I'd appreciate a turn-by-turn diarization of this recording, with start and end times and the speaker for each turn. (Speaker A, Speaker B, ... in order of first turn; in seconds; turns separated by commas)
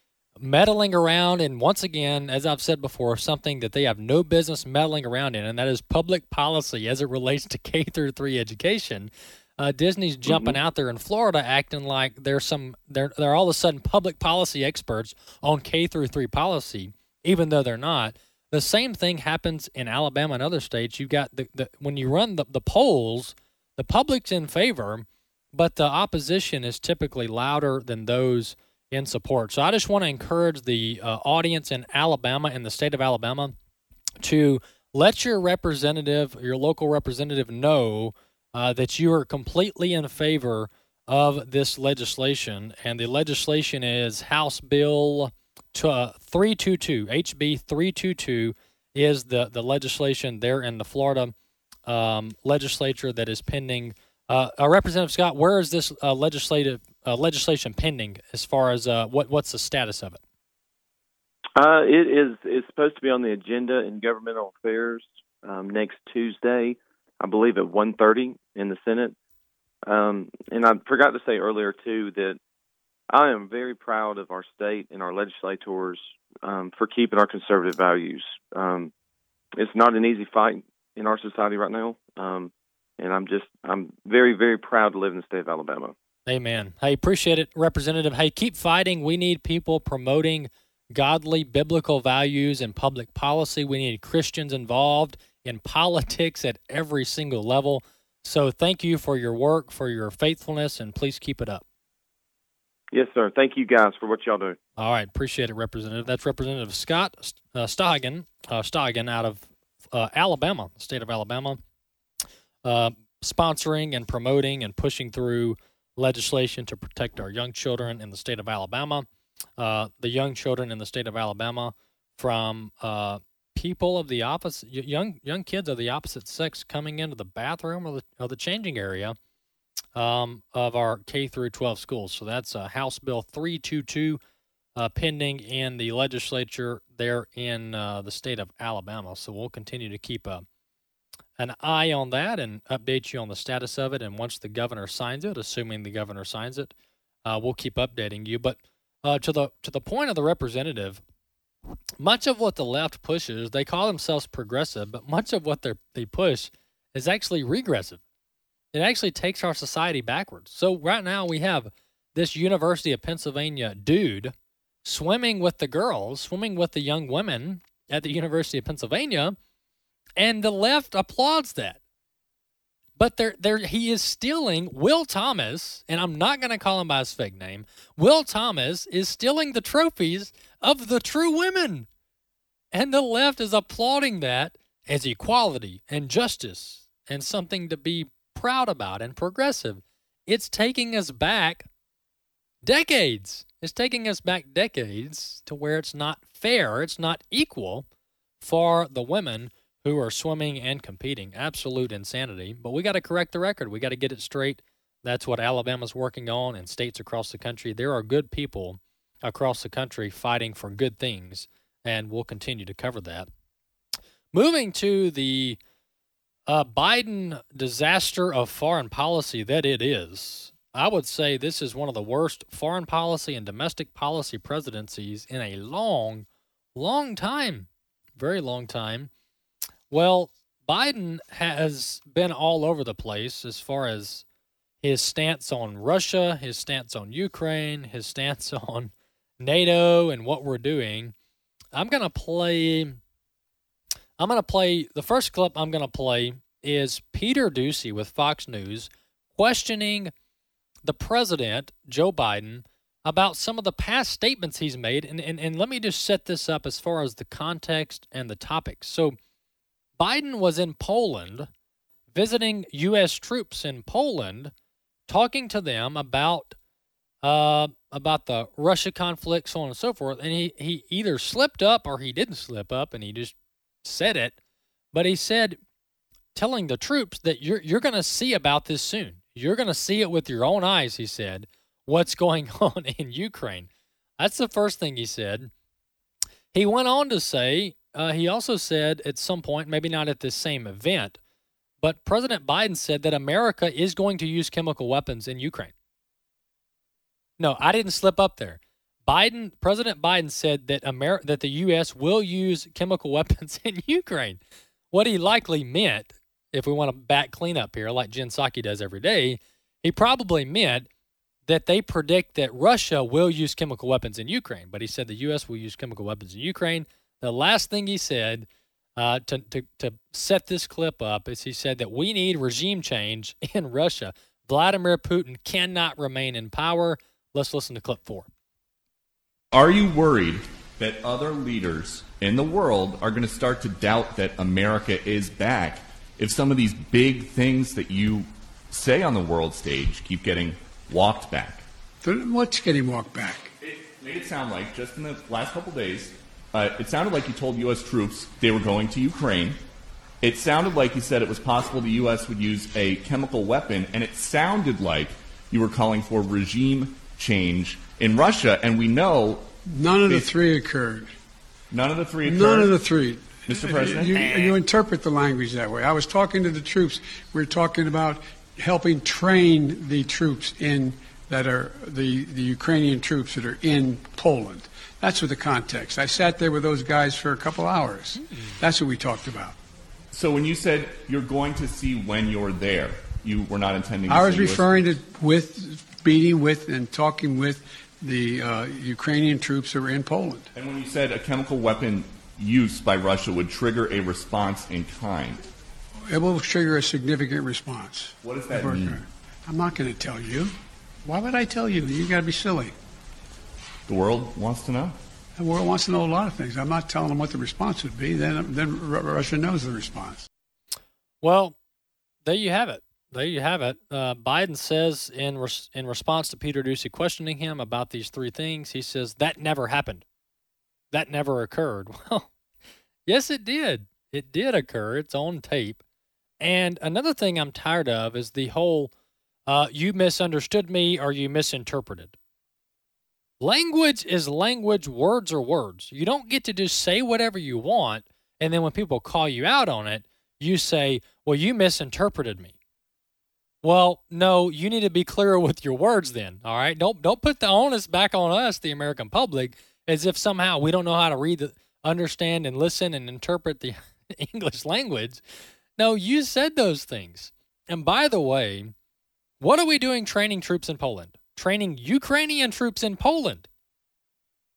Speaker A: 0.4-33.5, Speaker B: 10.2-10.6, Speaker A: 34.2-51.3, Speaker A: 51.9-60.2, Speaker B: 61.6-69.2, Speaker B: 69.8-72.4, Speaker B: 73.1-78.9, Speaker B: 79.5-85.9, Speaker A: 86.2-101.6, Speaker B: 102.9-104.6, Speaker A: 104.8-111.6, Speaker A: 112.6-119.1, Speaker A: 119.6-129.2, Speaker A: 129.9-134.2, Speaker A: 134.8-140.4, Speaker A: 141.4-146.7, Speaker A: 147.2-151.0, Speaker A: 152.0-158.0, Speaker A: 158.7-164.3, Speaker A: 164.8-169.3, Speaker A: 170.2-171.8, Speaker A: 173.0-181.9, Speaker A: 182.7-191.6, Speaker A: 192.6-197.9, Speaker A: 198.4-213.3, Speaker A: 214.3-215.6, Speaker A: 216.5-229.1, Speaker A: 229.9-234.2, Speaker A: 234.8-241.1, Speaker A: 241.7-243.0, Speaker A: 244.2-250.1, Speaker A: 250.8-259.2, Speaker A: 260.0-261.5, Speaker A: 262.1-264.5, Speaker A: 265.1-266.5, Speaker A: 267.2-274.4, Speaker A: 274.9-275.6, Speaker A: 276.3-285.5, Speaker A: 286.5-291.2, Speaker A: 291.8-295.7, Speaker A: 297.4-304.4, Speaker A: 304.9-310.9, Speaker A: 311.5-328.3, Speaker C: 329.5-341.6, Speaker D: 342.0-343.5, Speaker C: 343.6-349.6, Speaker C: 350.2-359.4, Speaker D: 359.7-361.1, Speaker C: 360.1-360.3, Speaker C: 361.7-362.8, Speaker D: 362.2-379.6, Speaker C: 363.5-364.6, Speaker C: 380.1-384.9, Speaker D: 384.1-390.5, Speaker C: 390.5-395.4, Speaker D: 396.1-400.5, Speaker C: 398.2-399.0, Speaker D: 401.0-402.7, Speaker C: 403.9-404.9, Speaker D: 405.4-410.3, Speaker A: 411.2-411.6, Speaker A: 412.2-420.0, Speaker A: 420.9-422.3, Speaker A: 423.1-425.8, Speaker A: 426.4-428.9, Speaker A: 429.4-432.1, Speaker A: 433.4-442.5, Speaker A: 443.6-455.2, Speaker A: 455.8-458.7, Speaker A: 459.4-463.5